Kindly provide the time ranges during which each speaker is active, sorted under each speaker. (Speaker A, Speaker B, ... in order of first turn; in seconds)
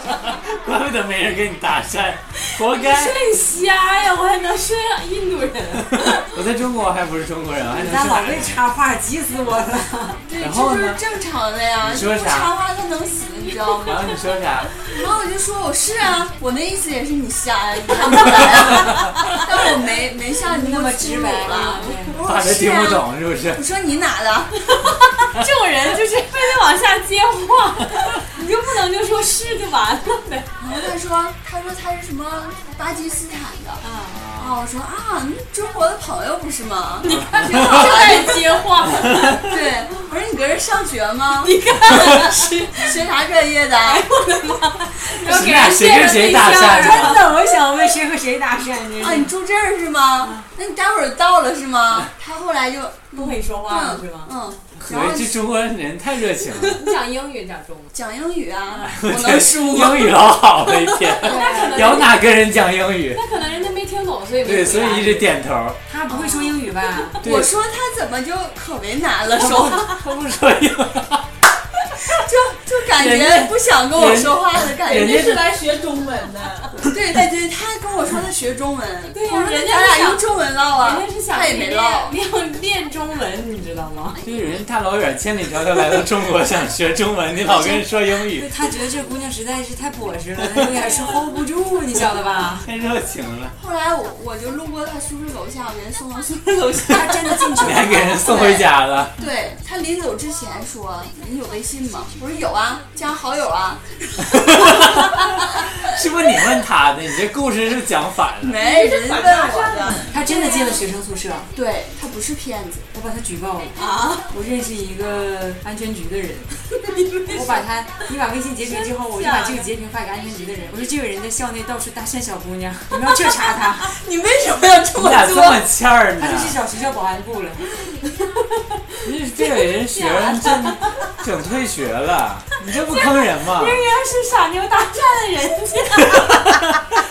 Speaker A: 0.5-3.2, 6.0-8.6, 10.4-11.0, 11.8-12.5, 13.8-14.8, 22.2-23.6, 34.1-34.6, 37.1-37.9, 45.2-47.2, 54.8-56.8, 58.9-63.2, 64.5-65.8, 67.2-67.5, 69.3-71.3, 72.9-75.5, 84.2-88.5, 90.4-90.7, 92.6-93.5, 97.6-99.2, 104.3-108.6, 125.0-126.5, 129.0-133.8, 136.1-136.5
Speaker B: 2.4-6.3, 17.9-19.1, 24.7-30.6, 37.0-39.5, 41.4-42.9, 43.9-47.3, 53.1-54.3, 56.7-57.9, 61.2-62.4, 63.1-65.3, 79.1-84.2, 90.7-91.2, 110.0-110.9, 113.8-114.2, 117.0-117.6, 118.6-119.7, 129.9-130.8, 132.9-136.4
Speaker C: 7.7-10.2, 20.4-22.2, 33.8-34.2, 46.4-49.3, 50.2-50.5, 61.2-62.0, 65.9-67.2, 87.5-92.7, 96.8-98.2, 110.1-111.5, 112.9-116.5, 117.3-123.9, 126.2-127.7
Speaker D: 10.2-14.2, 14.8-24.5, 30.6-33.8, 34.4-38.7, 39.2-44.1, 49.0-55.4, 57.9-60.4, 67.2-70.0, 72.0-75.1, 76.8-82.2, 93.6-105.8, 108.4-110.1, 111.5-112.9, 123.9-125.7
Speaker E: 74.9-76.8, 108.6-110.1